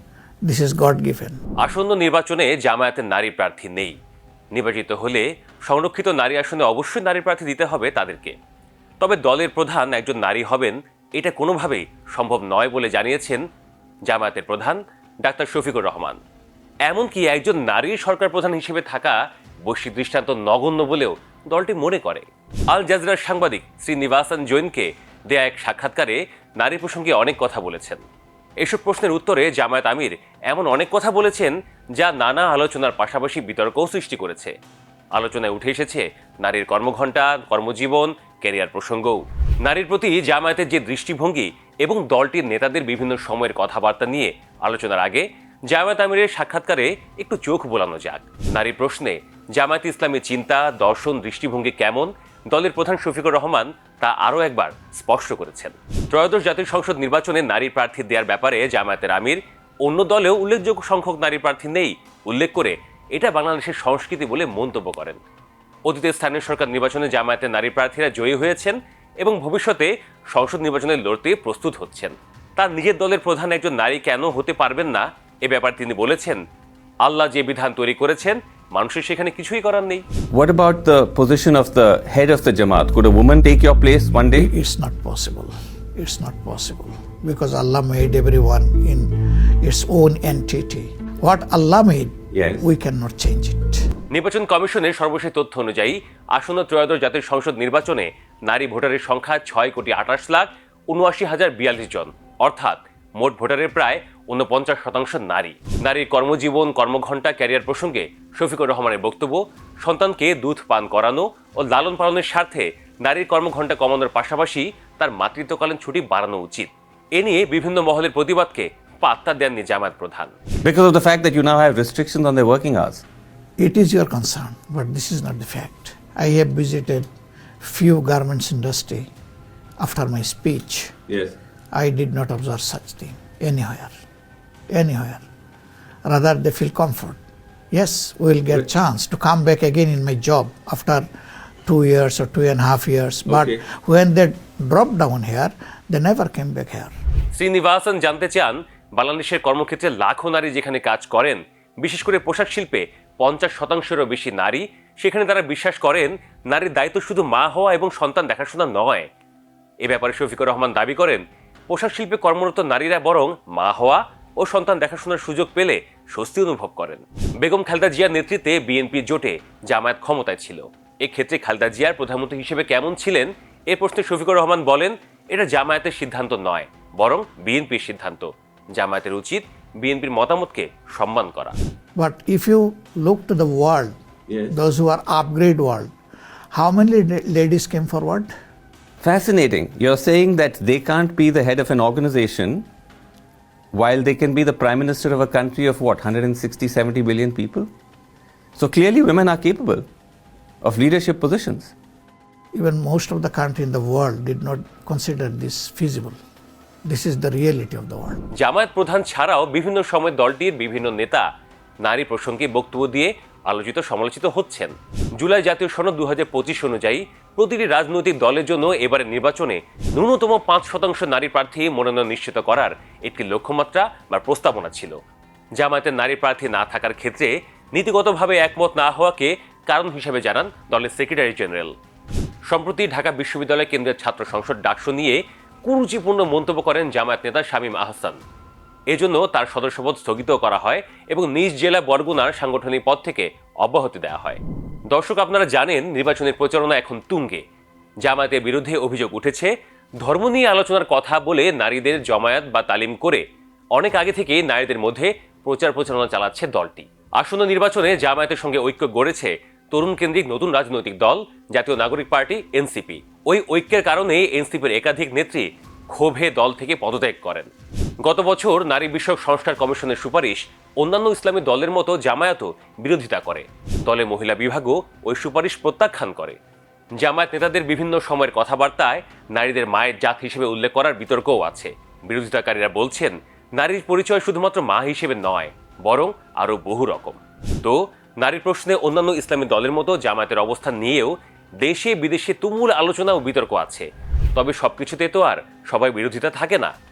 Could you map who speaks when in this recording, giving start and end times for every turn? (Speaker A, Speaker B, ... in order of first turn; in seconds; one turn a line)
Speaker A: 0.4-1.4
Speaker B: 1.6-4.0
Speaker B: 4.5-8.4
Speaker B: 9.0-13.4
Speaker B: 14.1-16.2
Speaker B: 16.9-28.0
Speaker B: 28.6-34.5
Speaker B: 35.1-65.2
Speaker B: 65.9-76.4
Speaker B: 77.0-80.0
Speaker C: 80.3-84.5
Speaker A: 84.3-93.9
Speaker C: 92.3-92.7
Speaker B: 94.1-120.3
Speaker C: 120.6-123.0
Speaker A: 123.6-127.1
Speaker A: 127.6-129.1
Speaker A: 129.8-130.9
Speaker C: 131.1-131.4
Speaker A: 131.7-133.9
Speaker A: 134.7-135.2
Speaker A: 136.1-137.2
Speaker A: 137.7-141.1
Speaker A: 141.7-146.9
Speaker C: 143.3-143.6
Speaker B: 147.3-159.1
Speaker B: 159.8-181.6
Speaker A: 182.0-183.9
Speaker C: 184.3-184.6
Speaker A: 184.5-185.9
Speaker A: 186.5-188.3
Speaker C: 189.0-192.7
Speaker C: 193.7-197.7
Speaker C: 198.6-199.9
Speaker C: 200.6-201.7
Speaker A: 202.5-206.2
Speaker A: 206.9-208.2
Speaker B: 208.4-211.2
Speaker B: 211.8-225.0
Speaker B: 225.6-231.7
Speaker B: 232.5-238.2
Speaker B: 238.9-244.4
Speaker B: 244.9-247.4
Speaker B: 248.0-249.5
Speaker B: 250.0-253.2
Speaker B: 253.8-267.5
Speaker B: 268.0-276.4
Speaker B: 277.0-296.7